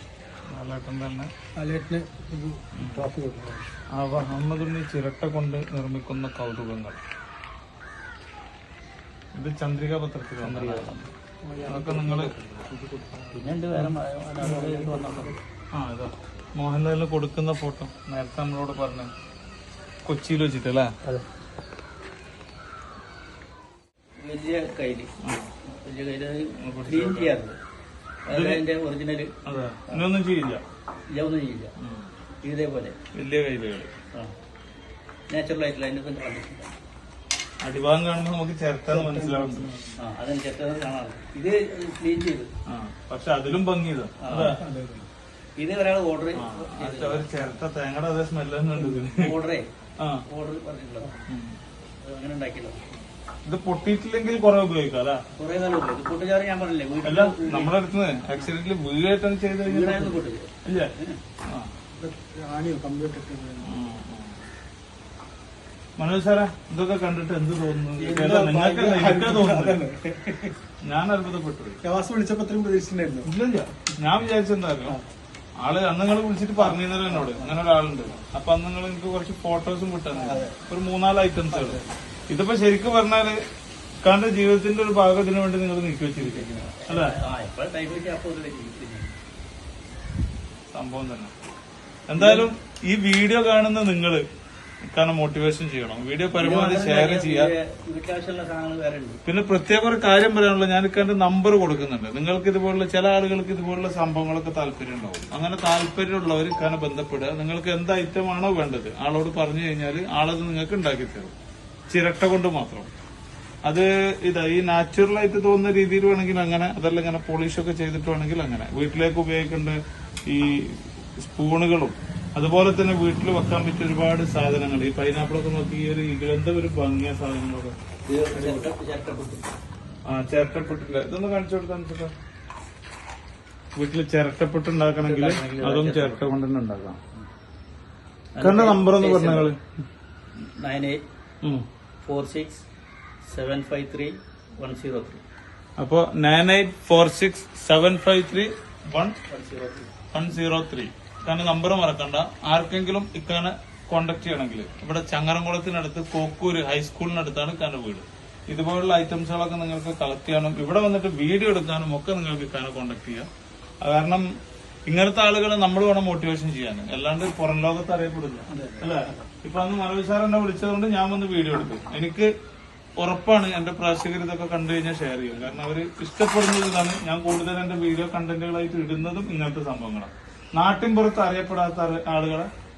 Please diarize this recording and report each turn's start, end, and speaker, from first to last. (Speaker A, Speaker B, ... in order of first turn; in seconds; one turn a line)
Speaker A: 0.5-1.3
Speaker B: 1.6-3.6
Speaker A: 2.7-3.0
Speaker A: 3.9-7.0
Speaker A: 9.3-11.0
Speaker C: 10.4-12.1
Speaker B: 11.6-13.5
Speaker A: 11.7-12.3
Speaker C: 13.3-15.4
Speaker B: 14.4-15.4
Speaker A: 15.7-19.1
Speaker A: 20.1-20.9
Speaker C: 24.2-25.1
Speaker A: 25.2-25.5
Speaker C: 25.7-27.6
Speaker A: 26.6-27.3
Speaker C: 28.3-29.3
Speaker A: 28.3-28.6
Speaker A: 29.4-30.6
Speaker C: 31.1-31.7
Speaker A: 31.8-32.1
Speaker C: 32.4-33.0
Speaker A: 33.1-33.9
Speaker C: 35.3-36.7
Speaker A: 37.6-39.7
Speaker B: 38.9-39.9
Speaker C: 40.0-42.5
Speaker A: 42.7-44.6
Speaker C: 44.2-44.6
Speaker B: 44.3-45.1
Speaker C: 45.6-47.4
Speaker A: 46.4-49.3
Speaker C: 48.8-49.6
Speaker C: 50.3-51.2
Speaker A: 51.3-51.6
Speaker C: 52.0-52.9
Speaker A: 53.5-55.2
Speaker C: 55.4-57.8
Speaker A: 57.0-60.9
Speaker C: 59.6-61.2
Speaker B: 62.0-64.0
Speaker A: 63.6-64.4
Speaker A: 66.0-69.8
Speaker B: 68.0-70.6
Speaker A: 70.8-71.8
Speaker B: 71.8-73.3
Speaker A: 73.2-75.0
Speaker A: 75.6-83.4
Speaker C: 77.1-77.6
Speaker B: 80.1-80.5
Speaker B: 81.5-81.9
Speaker A: 84.0-87.1
Speaker C: 86.2-89.1
Speaker A: 90.7-91.3
Speaker A: 92.1-94.2
Speaker C: 92.2-92.5
Speaker A: 94.9-97.5
Speaker C: 96.3-99.2
Speaker A: 99.2-111.3
Speaker A: 111.9-112.9
Speaker A: 113.7-127.8
Speaker C: 128.1-129.4
Speaker A: 128.3-128.7
Speaker A: 130.1-132.1
Speaker A: 133.8-137.0
Speaker C: 135.0-136.3
Speaker C: 138.3-139.5
Speaker A: 138.4-139.6
Speaker C: 140.4-141.0
Speaker C: 142.0-142.6
Speaker C: 143.3-145.2
Speaker A: 145.8-149.2
Speaker C: 149.3-149.9
Speaker A: 150.1-163.3
Speaker A: 163.8-164.3
Speaker A: 164.9-172.3
Speaker B: 168.5-169.2
Speaker A: 173.0-182.5